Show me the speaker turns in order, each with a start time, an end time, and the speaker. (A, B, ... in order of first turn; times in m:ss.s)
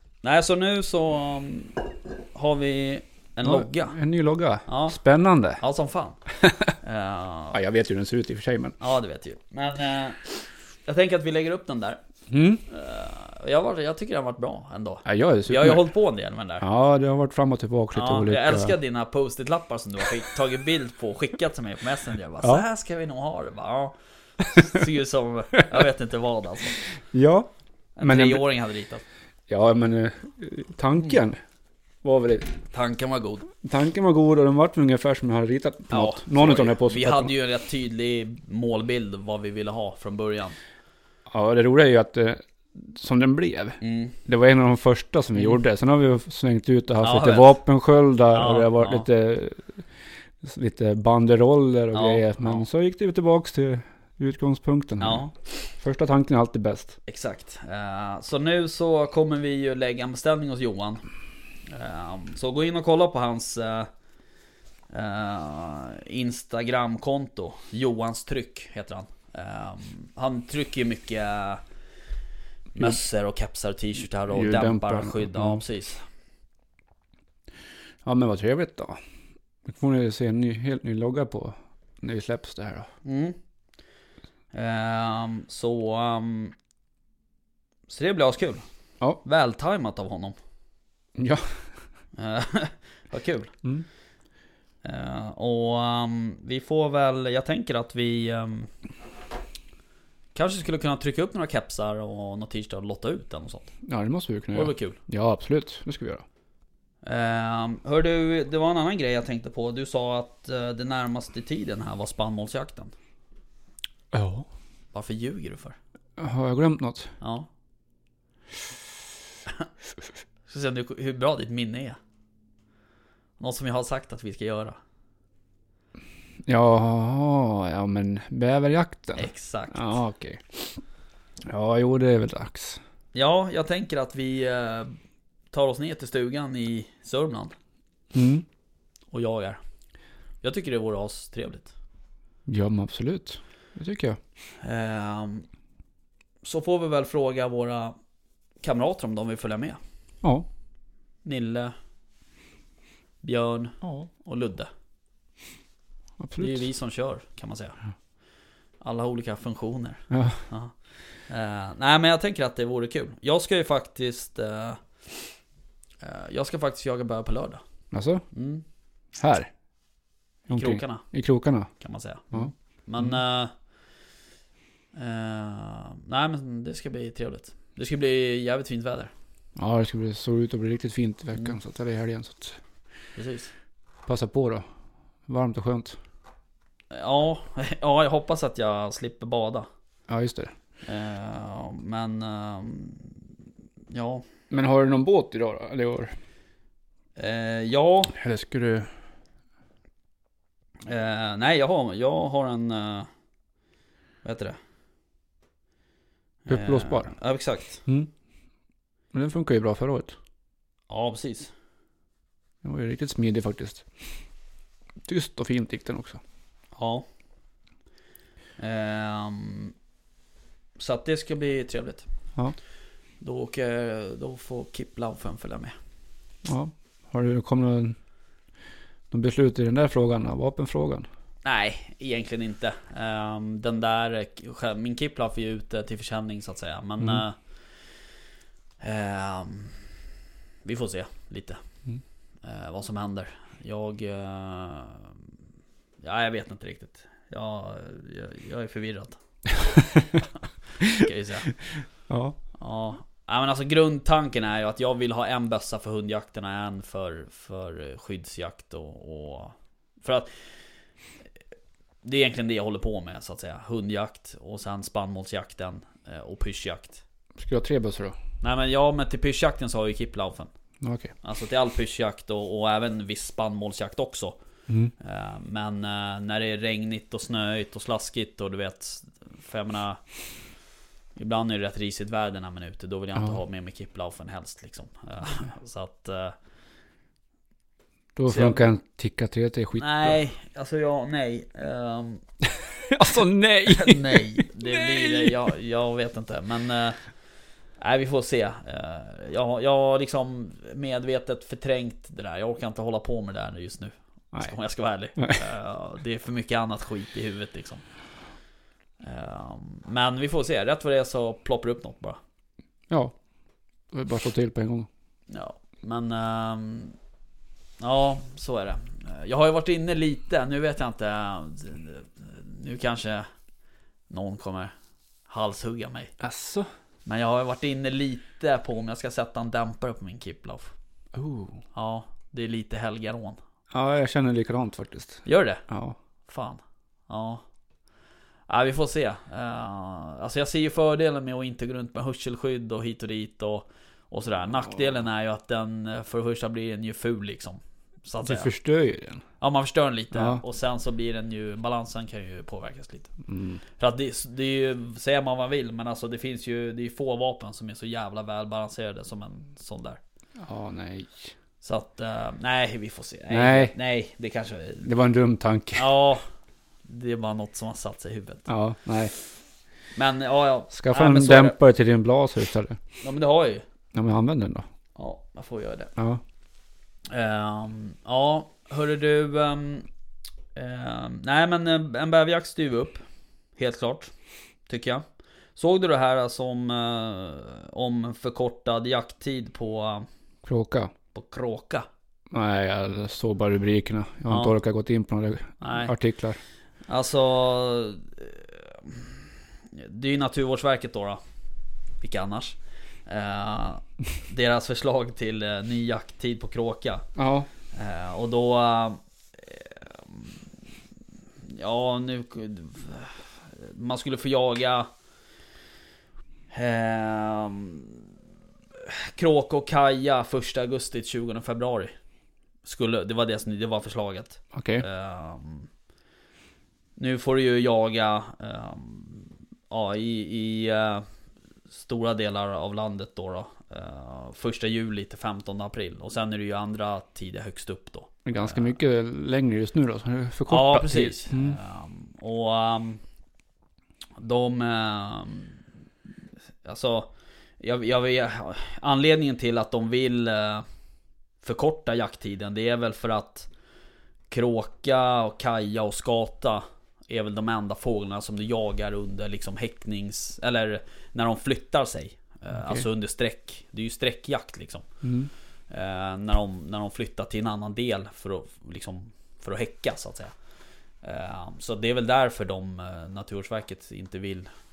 0:00.2-0:04.0 A
0:03.4-0:05.6 B
0:04.7-0:05.0 A
0:05.6-0:06.2 A
0:06.3-0:06.7 B
0:06.8-0:07.6 A
0:07.5-0:08.8 B
0:08.8-0:12.0 A
0:12.3-0:12.6 B
0:12.7-0:16.7 A
0:15.0-0:15.9 B
0:16.6-0:18.8 B
0:17.9-0:26.9 A
0:27.1-0:27.5 B
0:28.0-0:29.0 A
0:28.0-0:28.4 B
0:29.5-0:31.4 B
0:32.0-0:32.6 B
0:32.7-0:33.5 A
0:33.6-0:37.3 B
0:35.9-0:40.6 A
0:41.3-0:49.8 B
0:43.8-0:44.2 A
0:47.0-0:47.6 A
0:48.3-0:49.1 A
0:50.4-0:55.2 B
0:51.9-0:52.7 A
0:55.0-0:55.5 A
0:55.8-0:57.0 B
0:57.1-1:01.0 A
1:01.7-1:03.9 A
1:04.9-1:11.6 A
1:12.8-1:16.0 A
1:14.3-1:15.6 B
1:18.0-1:19.0 B
1:19.6-1:22.9 B
1:23.0-1:23.4 A
1:24.5-1:26.5 A
1:27.9-1:28.6 A
1:29.2-1:30.4 A
1:31.2-1:31.6 B
1:32.2-1:33.5 A
1:34.8-1:38.7 A
1:40.4-1:43.7 A
1:43.9-1:46.2 B
1:44.5-1:45.0 A
1:47.0-1:52.9 A
1:54.1-1:54.5 B
1:54.9-1:55.8 A
1:56.2-1:57.1 B
1:57.2-1:57.5 A
2:00.5-2:02.0 A
2:03.4-2:04.8 A
2:06.4-2:10.8 B
2:09.2-2:09.9 A
2:11.5-2:12.8 B
2:13.1-2:14.9 A
2:15.5-2:17.5 A
2:18.1-2:18.4 B
2:19.1-2:19.6 A
2:20.4-2:21.7 A
2:22.5-2:24.2 B
2:24.6-2:25.5 A
2:26.4-2:28.0 A
2:28.6-2:29.8 A
2:31.2-2:31.7 A
2:33.2-2:34.7 A
2:33.8-2:34.1 B
2:36.2-2:36.7 B
2:36.4-2:37.8 A
2:38.8-2:40.8 A
2:40.1-2:40.4 B
2:41.3-2:45.3 A
2:46.0-2:47.6 A
2:47.9-2:48.2 B
2:48.3-2:48.6 A
2:49.2-2:49.5 B
2:50.5-2:51.7 B
2:50.5-2:51.1 A
2:51.8-2:53.5 A
2:54.9-2:59.1 A
2:59.6-3:02.6 B
3:03.2-3:03.5 A
3:04.1-3:04.6 B
3:05.3-3:06.0 B
3:06.9-3:09.7 A
3:10.1-3:10.5 B
3:10.8-3:13.2 A
3:13.9-3:14.2 A
3:14.5-3:16.1 B
3:17.2-3:18.2 A
3:18.1-3:18.9 B
3:20.8-3:23.1 A
3:24.2-3:24.6 A
3:26.5-3:27.1 B
3:26.5-3:27.8 A
3:29.1-3:30.2 B
3:30.9-3:31.5 A
3:32.6-3:33.9 B
3:35.0-3:36.2 B
3:36.8-3:37.0 A
3:38.6-3:39.7 A
3:40.8-3:42.1 A
3:43.2-3:45.8 A
3:46.4-3:48.0 B
3:49.1-3:51.1 B
3:51.4-3:57.9 A
3:58.8-3:59.9 A
4:00.6-4:01.6 A
4:02.4-4:05.2 A
4:06.0-4:09.2 A
4:09.6-4:10.2 B
4:10.8-4:11.1 B
4:10.9-4:11.5 A
4:11.7-4:12.4 B
4:12.6-4:20.3 A
4:22.0-4:27.0 A
4:27.4-4:28.2 B
4:28.4-4:30.5 A
4:30.8-4:31.1 B
4:31.2-4:34.4 A
4:35.0-4:40.0 A
4:41.2-4:46.4 A
4:48.2-4:50.2 B
4:48.3-4:48.7 A
4:49.8-4:52.2 A
4:52.5-4:55.4 B
4:53.7-4:57.0 A
4:57.8-5:07.8 A
5:09.0-5:12.2 A
5:12.9-5:13.1 B
5:13.9-5:14.9 B
5:15.3-5:17.0 A
5:17.8-5:23.2 A
5:24.1-5:24.7 A
5:25.3-5:26.1 A
5:26.2-5:26.7 B
5:27.1-5:30.7 A
5:31.1-5:31.6 B
5:31.8-5:33.4 A
5:33.7-5:36.0 B
5:35.2-5:35.6 A
5:36.3-5:37.4 A
5:38.5-5:48.5 A
5:48.2-5:49.2 B
5:49.4-5:53.1 A
5:50.1-5:50.4 B
5:53.3-5:53.6 B
5:53.8-6:00.0 A
6:00.4-6:01.3 B
6:01.6-6:04.9 A
6:03.3-6:03.7 B
6:04.8-6:05.9 B
6:05.8-6:06.2 A
6:06.9-6:08.5 A
6:08.5-6:09.1 B
6:10.0-6:11.6 A
6:10.7-6:12.8 B
6:13.0-6:13.6 A
6:13.9-6:14.6 B
6:15.0-6:15.9 A
6:16.0-6:16.2 B
6:17.1-6:19.9 A
6:20.6-6:23.0 A
6:23.6-6:24.1 A
6:24.7-6:25.0 A
6:25.6-6:30.1 A
6:30.4-6:30.9 B
6:31.1-6:31.9 A
6:32.3-6:36.4 B
6:35.6-6:35.9 A
6:36.9-6:41.2 A
6:42.0-6:47.0 A
6:47.2-6:47.5 B
6:47.7-6:50.4 A
6:51.4-6:54.9 A
6:56.5-6:58.0 A
6:58.8-7:01.9 A
7:02.6-7:05.7 A
7:04.5-7:04.8 B
7:07.0-7:11.0 A
7:11.7-7:18.7 A
7:18.2-7:21.6 B
7:20.5-7:23.0 A
7:24.2-7:25.6 A
7:26.6-7:30.6 A
7:31.4-7:33.5 A
7:34.3-7:44.9 A
7:42.6-7:42.8 B
7:45.0-7:45.3 B
7:45.7-7:50.3 A
7:51.0-7:54.5 A